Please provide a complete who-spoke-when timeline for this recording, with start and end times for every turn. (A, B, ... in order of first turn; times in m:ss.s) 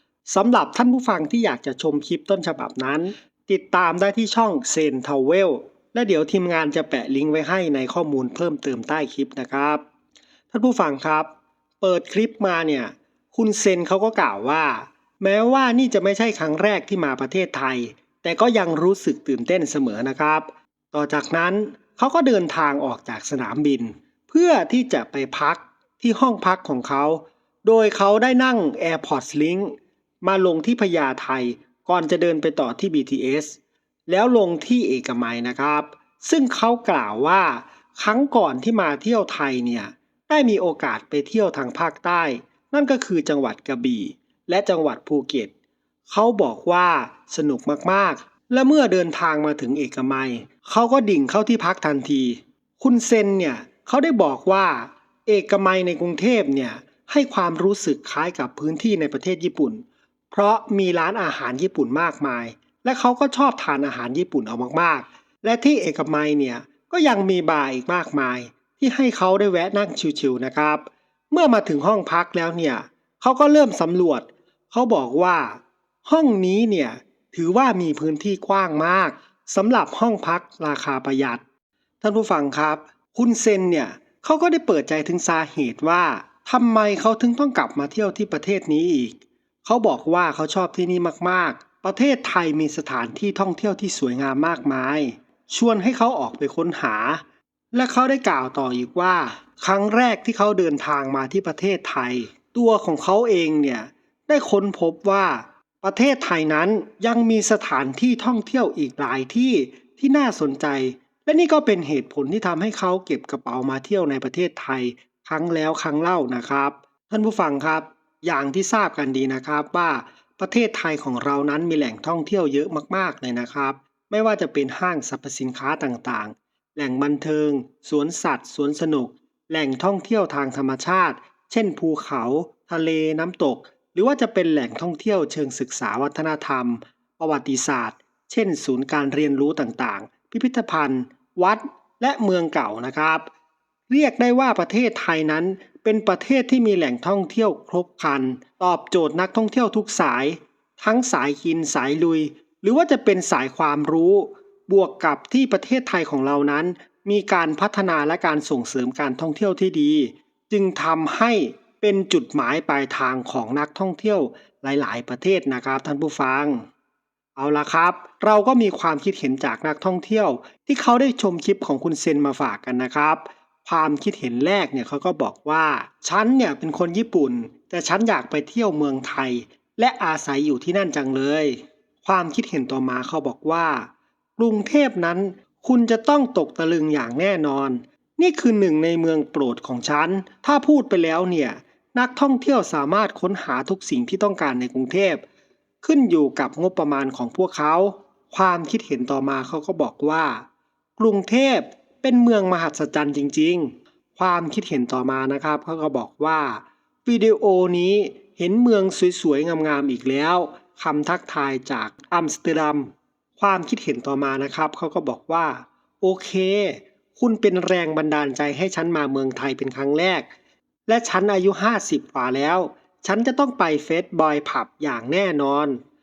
0:00.2-0:09.8 A
0:10.5-0:45.5 A
0:46.1-1:21.4 A
1:22.0-2:23.3 A
2:23.9-2:46.6 A
2:47.4-3:15.2 A
3:15.8-3:20.4 A
3:21.0-3:40.3 A
3:40.9-3:45.8 A